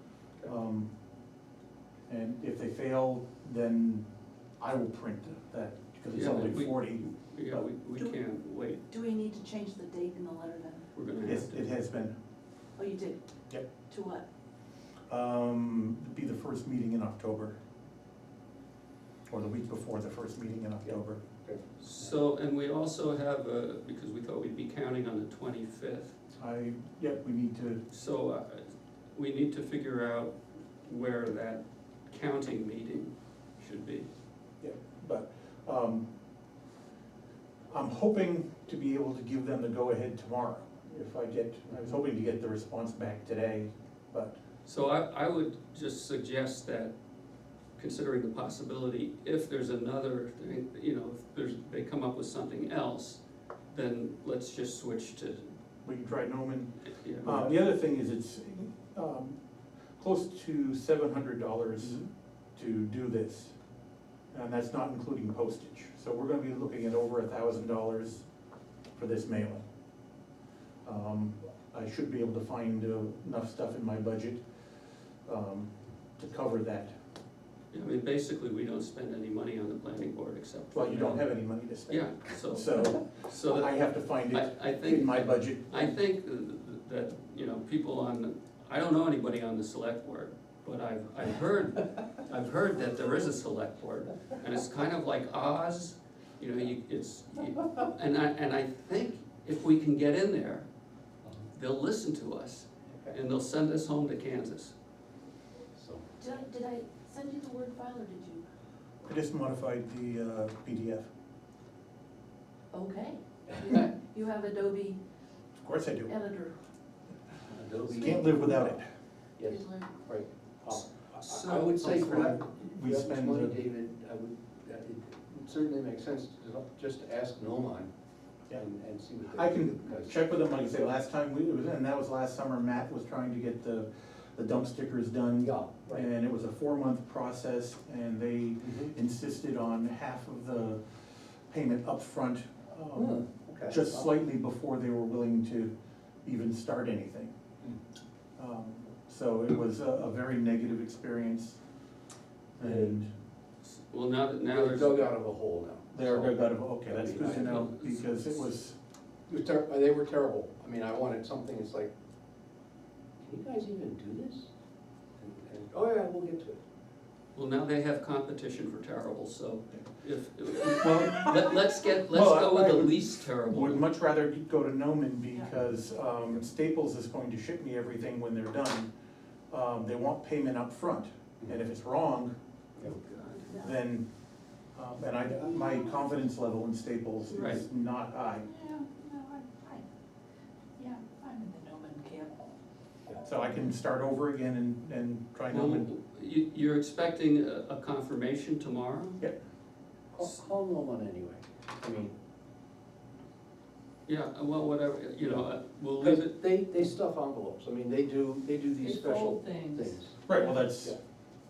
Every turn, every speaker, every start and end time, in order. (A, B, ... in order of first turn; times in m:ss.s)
0:00.4-0:00.9 A
0:02.1-0:04.1 A
0:04.6-0:07.7 A
0:06.1-0:08.8 B
0:08.9-0:10.8 C
0:11.0-0:11.6 B
0:11.2-0:12.2 A
0:12.8-0:13.2 C
0:13.8-0:14.3 C
0:15.1-0:17.6 A
0:19.3-0:21.2 A
0:20.8-0:21.6 D
0:21.8-0:26.2 B
0:26.4-0:27.8 A
0:27.9-0:34.1 B
0:34.6-0:36.1 A
0:37.7-0:44.4 A
0:44.6-0:46.9 B
0:47.8-0:55.5 B
0:55.8-0:59.4 A
0:56.9-0:57.4 B
1:00.0-1:02.0 A
1:02.6-1:03.6 A
1:04.3-1:08.3 A
1:09.0-1:09.6 A
1:10.8-1:14.4 A
1:15.2-1:17.0 A
1:17.7-1:40.7 B
1:20.7-1:26.0 A
1:41.5-1:44.8 B
1:42.9-1:43.2 D
1:45.8-1:46.2 D
1:46.2-1:48.4 C
1:49.0-1:51.1 A
1:52.7-1:55.0 C
1:55.6-1:56.2 A
1:56.1-1:56.6 C
1:57.4-1:58.8 D
1:57.9-1:58.9 A
1:59.4-2:07.9 D
1:59.4-2:00.0 C
2:01.2-2:02.3 B
2:01.8-2:03.6 A
2:08.5-2:10.2 D
2:09.3-2:25.7 A
2:15.4-2:16.1 D
2:18.6-2:18.9 D
2:23.0-2:24.1 D
2:26.2-2:27.3 A
2:28.4-2:31.6 A
2:32.6-2:33.1 A
2:32.6-2:33.0 D
2:33.6-2:35.0 B
2:34.5-2:37.7 D
2:35.9-2:38.8 A
2:37.4-2:38.2 B
2:39.3-2:41.9 D
2:43.2-2:44.5 D
2:45.2-2:46.6 D
2:47.4-2:53.9 B
2:50.7-2:51.4 A
2:52.1-2:58.9 A
2:59.5-3:02.3 A
3:02.8-3:03.5 B
3:03.5-3:04.1 A
3:04.7-3:08.5 A
3:07.4-3:07.6 B
3:08.5-3:09.8 C
3:10.8-3:12.6 C
3:13.2-3:15.9 A
3:15.5-3:19.2 B
3:20.1-3:22.1 D
3:24.1-3:26.3 B
3:26.0-3:30.2 D
3:28.8-3:30.5 C
3:30.3-3:31.0 A